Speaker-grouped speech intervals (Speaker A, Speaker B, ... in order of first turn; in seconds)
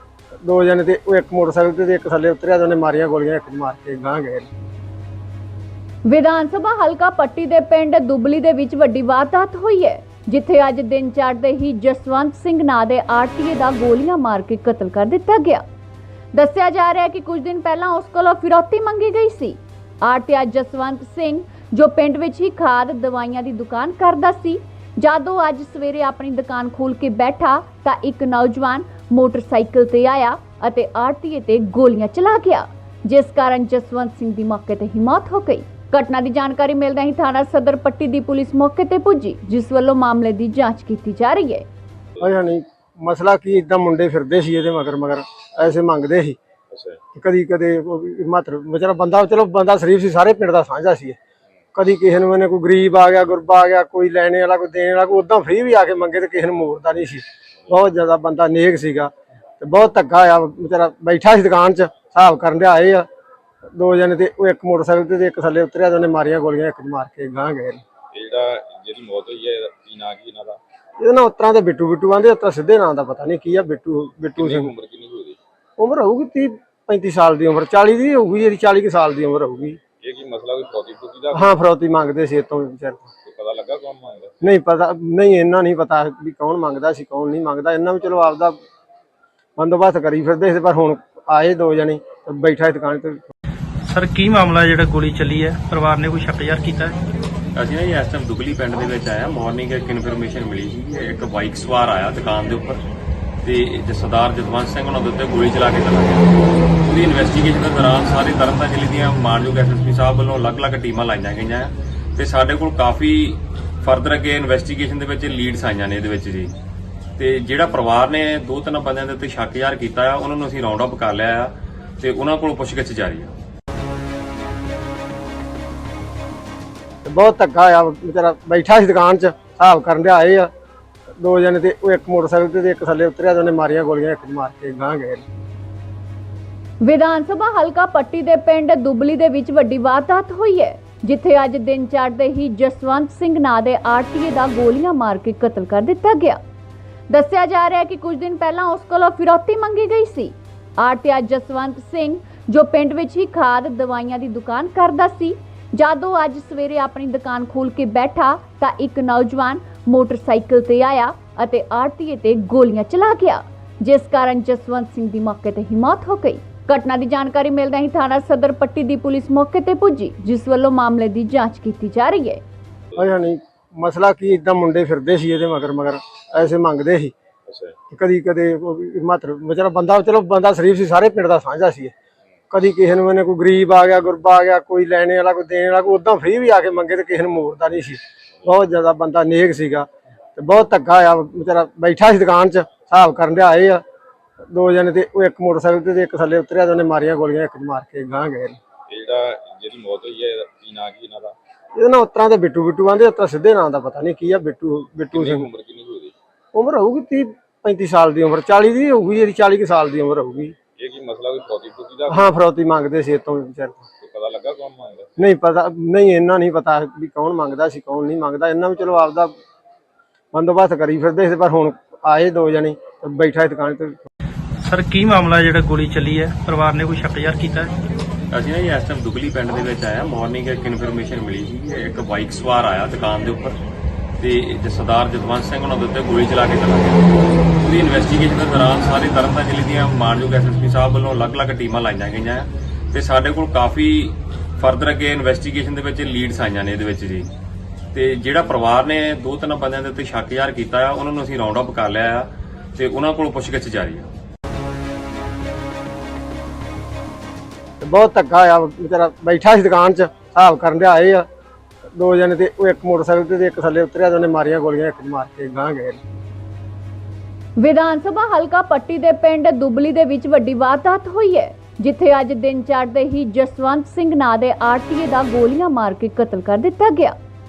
Speaker A: 0.4-4.5, 42.2-46.4, 47.1-51.2, 51.7-63.1, 63.8-67.8, 71.0-74.7, 75.8-79.8, 81.3-83.0, 84.4-88.6, 89.6-93.3, 127.0-130.5, 131.2-135.2, 172.9-177.1, 177.9-181.9, 182.5-193.8, 194.5-198.6, 201.8-205.4, 206.5-210.5, 212.1-213.8, 215.2-219.3, 220.3-224.1, 257.8-261.2, 261.9-266.0
Speaker B: 6.0-15.6, 16.3-41.6, 136.8-146.4, 147.1-172.4, 267.6-277.1
Speaker C: 46.7-47.0, 68.1-70.6, 74.3-75.4, 80.0-81.5, 83.2-84.3, 177.5-177.7, 198.9-201.3, 205.1-206.1, 210.8-212.3, 214.0-215.2
Speaker D: 93.9-97.0, 224.7-227.7
Speaker E: 97.5-102.8, 103.4-106.3, 106.9-116.5, 117.2-123.3, 228.3-233.6, 234.2-237.1, 237.7-247.3, 247.9-254.1